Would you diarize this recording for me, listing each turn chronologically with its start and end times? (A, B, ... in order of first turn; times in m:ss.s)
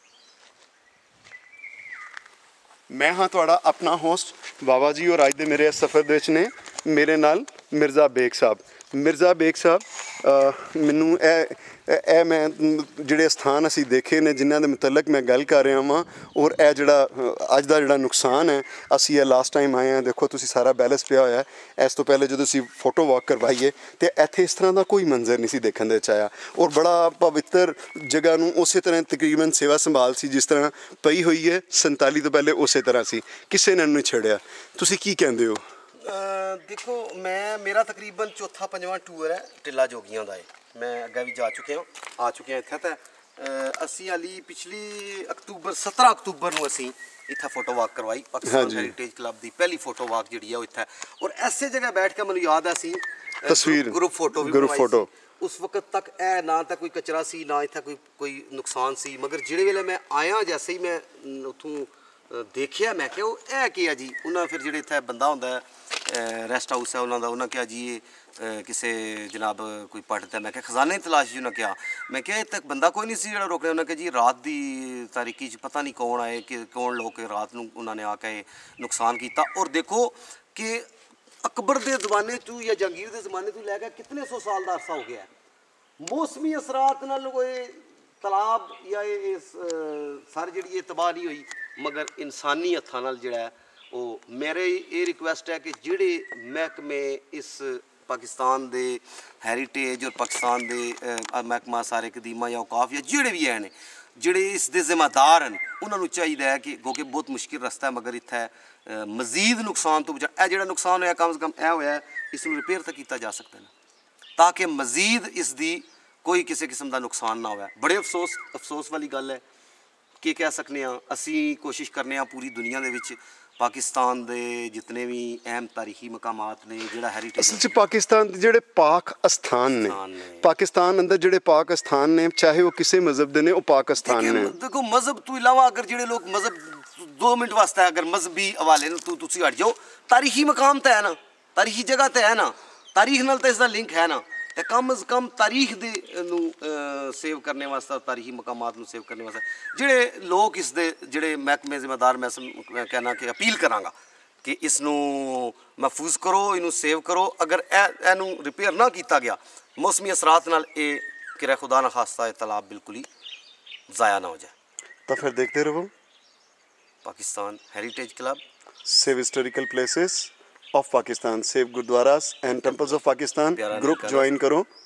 0:02.9-0:35.6 A
0:36.0-1:20.9 B
0:48.4-0:48.9 A
0:53.5-0:55.1 A
1:21.4-1:25.3 B
1:26.0-1:53.7 B
1:54.4-1:59.4 B
2:00.2-2:07.8 B
2:07.4-2:14.6 A
2:09.8-2:10.4 B
2:14.0-2:43.1 B
2:43.9-2:44.5 B
2:45.1-2:45.9 A
2:47.0-2:48.4 B
2:48.8-2:54.7 A
2:52.5-2:54.3 B